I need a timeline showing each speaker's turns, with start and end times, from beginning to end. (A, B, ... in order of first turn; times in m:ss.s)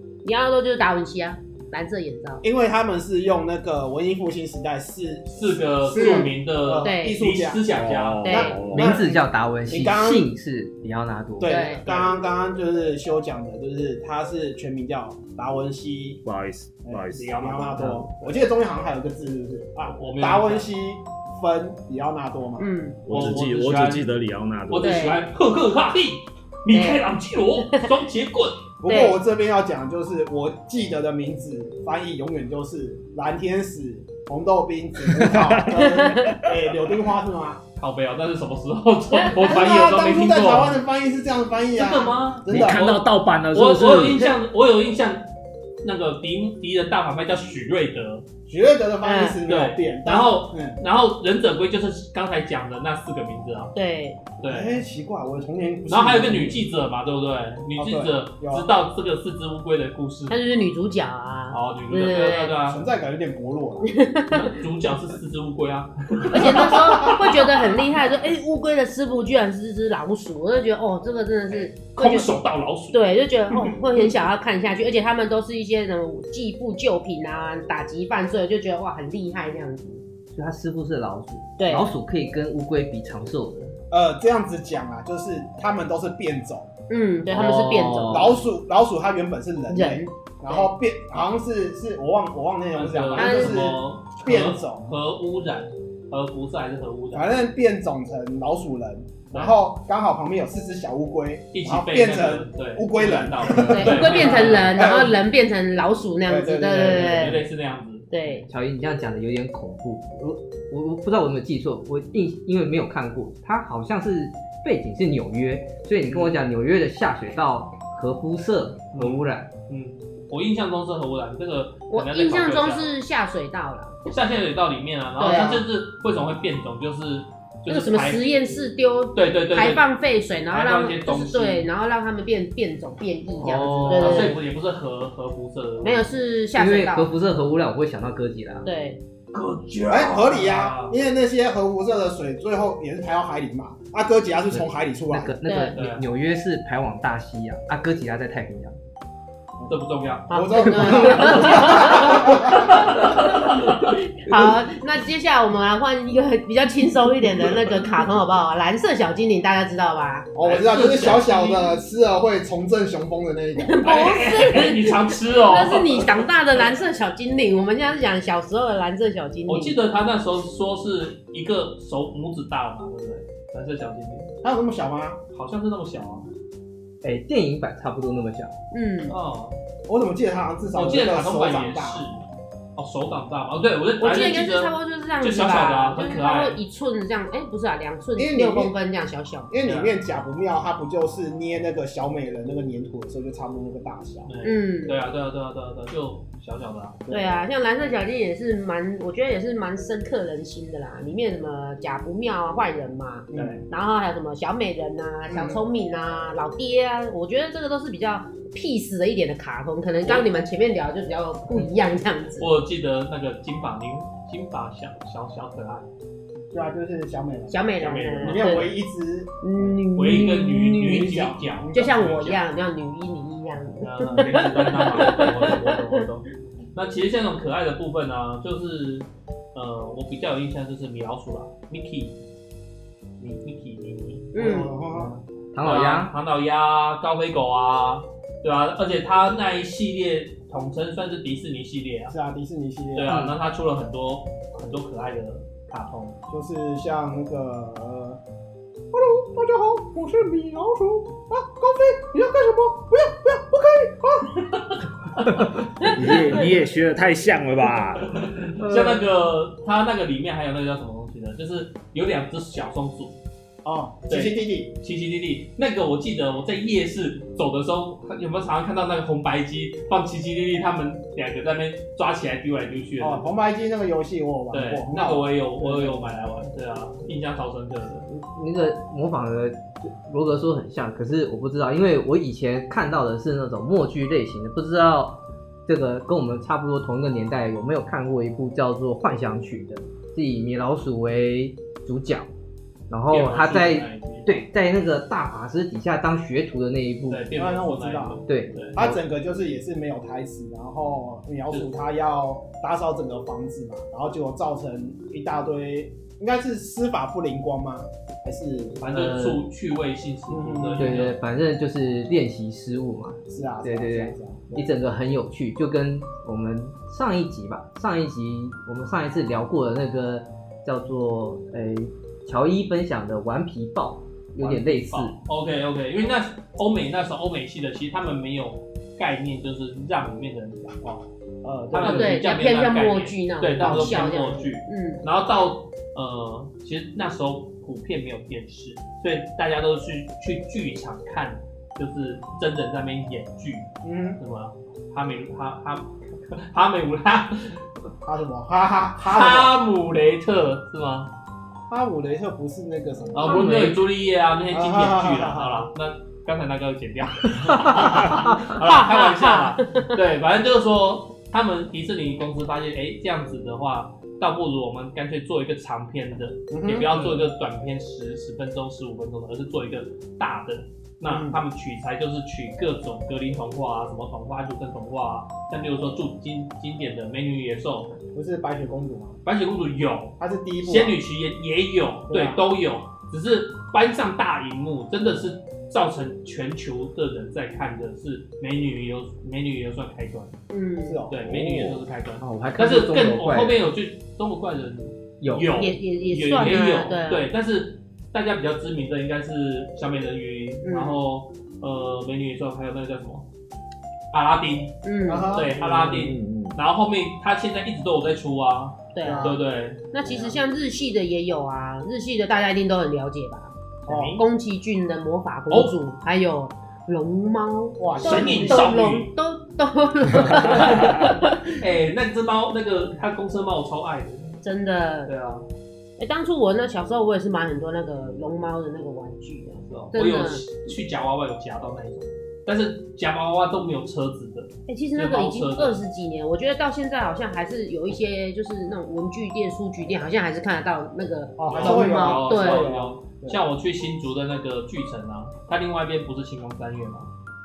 0:00.2-0:02.4 A
0:02.4-0:07.6 B
0:05.4-0:08.4 C
0:05.9-0:07.2 A
0:07.7-0:09.0 D
0:08.2-0:08.6 A
0:08.2-0:10.3 B
0:08.7-0:11.7 E
0:11.4-0:16.2 B
0:11.4-0:11.8 A
0:11.8-0:12.2 C
0:16.2-0:17.5 D
0:16.8-0:22.7 B
0:17.1-0:18.4 C
0:19.9-0:20.7 C
0:22.6-0:23.0 A
0:23.0-0:25.1 D
0:23.1-0:24.1 C
0:24.7-0:28.7 C
0:24.8-0:25.2 A
0:26.7-0:27.1 A
0:28.8-0:37.6 B
0:28.9-0:29.2 A
0:35.2-0:36.5 D
0:35.7-0:36.4 A
0:37.8-0:40.8 C
0:39.3-0:43.0 B
0:41.7-0:43.0 C
0:42.5-0:44.3 D
0:43.5-0:45.3 C
0:45.8-0:48.2 C
0:48.5-0:50.8 B
0:49.0-0:49.4 A
0:49.5-0:53.7 C
0:53.8-0:54.3 A
0:54.4-0:54.8 C
0:54.4-0:56.6 B
0:55.9-1:00.4 C
0:57.8-0:58.7 B
1:00.3-1:02.6 A
1:01.5-1:02.8 C
1:02.6-1:03.9 B
1:03.8-1:04.5 A
1:04.3-1:07.8 C
1:06.3-1:12.3 A
1:06.3-1:07.3 B
1:11.5-1:13.0 C
1:12.9-1:20.0 A
1:20.3-1:23.8 E
1:21.6-1:21.9 A
1:23.9-1:26.7 B
1:26.9-1:28.4 A
1:27.3-1:28.4 E
1:27.3-1:27.6 C
1:28.1-1:34.9 B
1:29.7-1:30.7 A
1:32.7-1:37.4 C
1:33.2-1:33.7 A
1:37.1-1:45.2 B
1:39.3-1:39.6 C
1:41.5-1:44.9 C
1:43.7-1:47.5 A
1:46.2-1:47.4 B
1:46.7-1:48.1 C
1:48.1-1:48.5 A
1:48.4-1:59.5 E
1:56.1-1:56.3 C
1:58.9-2:02.9 C
2:01.9-2:04.0 A
2:04.1-2:08.2 C
2:05.2-2:05.6 A
2:05.2-2:05.6 B
2:07.7-2:14.4 A
2:09.1-2:09.9 C
2:10.5-2:11.7 C
2:13.4-2:14.4 E
2:13.8-2:16.1 C
2:15.8-2:17.1 A
2:16.6-2:18.7 E
2:18.6-2:19.0 A
2:19.3-2:21.0 C
2:19.9-2:25.4 B
2:25.1-2:28.8 E
2:25.4-2:25.8 A
2:25.7-2:26.0 C
2:29.7-2:33.6 C
2:30.3-2:33.4 B
2:30.3-2:40.3 A
2:40.3-2:43.8 B
2:40.4-2:41.7 C
2:43.6-2:49.8 A
2:43.8-2:46.3 C
2:49.5-2:54.3 C
2:54.4-2:55.2 B
2:55.3-2:56.3 C
2:57.0-2:58.6 E
2:58.7-2:59.1 A
2:59.1-2:59.6 C
2:59.9-3:02.0 B
3:00.7-3:02.2 C
3:02.8-3:06.6 C
3:04.0-3:09.5 A
3:08.2-3:08.8 B
3:09.5-3:14.3 B
3:09.6-3:09.9 C
3:14.2-3:17.0 C
3:14.4-3:15.0 A
3:17.1-3:17.4 B
3:17.1-3:32.5 A
3:23.3-3:23.7 B
3:23.3-3:23.6 C
3:25.3-3:25.6 B
3:32.4-3:35.9 C
3:36.5-3:37.7 B
3:37.5-3:38.7 A
3:37.8-3:38.7 C
3:38.2-3:39.8 B
3:39.4-3:41.1 A
3:40.0-3:42.4 C
3:40.9-3:41.6 B
3:41.7-3:46.0 A
3:43.8-3:52.2 C
3:53.2-4:02.2 C
3:54.3-3:54.7 A
3:54.4-3:55.2 B
3:55.5-3:56.1 E
4:02.1-4:03.1 B
4:03.0-4:06.2 C
4:03.1-4:03.4 E
4:06.3-4:08.2 B
4:08.9-4:14.4 B
4:14.5-4:15.5 C
4:15.8-4:18.2 D
4:18.1-4:23.1 C
4:18.6-4:19.0 E
4:23.6-4:24.7 B
4:24.1-4:33.2 C
4:33.0-4:36.2 B
4:34.5-4:38.1 C
4:38.1-4:52.3 E
4:52.9-4:57.2 E
4:53.1-4:54.4 C
4:57.1-4:58.8 C
4:57.3-5:08.8 B
4:58.3-4:59.0 E
5:08.8-5:11.2 C
5:08.9-5:09.4 E
5:10.3-5:11.0 B
5:10.8-5:25.2 E
5:13.3-5:14.7 B
5:24.4-5:31.0 C
5:31.4-5:32.1 B
5:31.7-5:47.6 C
5:31.8-5:35.0 A
5:33.6-5:34.1 B
5:43.8-5:44.2 B
5:48.0-5:49.6 B
5:49.0-5:51.1 C
5:51.7-5:53.5 B
5:53.1-6:18.0 C
5:53.3-5:53.8 E
5:54.5-5:55.6 B
5:57.5-5:58.4 E
5:58.6-5:59.9 A
6:06.5-6:07.3 B
6:11.0-6:11.4 B
6:18.1-6:19.2 B
6:19.2-6:30.4 C
6:20.2-6:21.0 B
6:22.1-6:22.4 B
6:30.5-6:31.0 A
6:30.8-6:31.2 B
6:31.1-6:43.3 C
6:31.2-6:31.9 D
6:32.2-6:33.7 E
6:35.2-6:35.5 E
6:35.5-6:37.3 A
6:40.6-6:41.0 A
6:44.1-6:44.8 C
6:44.8-6:45.3 A
6:45.1-6:45.9 B
6:45.3-6:49.9 C
6:45.9-6:46.6 D
6:48.9-6:53.6 A
6:49.0-6:49.4 B
6:53.9-6:54.2 C
6:53.9-6:54.2 B
6:54.2-7:01.6 A
6:57.8-6:58.7 B
6:58.0-6:59.1 C
7:00.4-7:04.4 C
7:04.4-7:05.1 A
7:05.1-7:05.4 C
7:06.0-7:10.4 A
7:09.7-7:15.8 C
7:14.7-7:22.7 A
7:21.4-7:23.4 B
7:21.5-7:27.1 C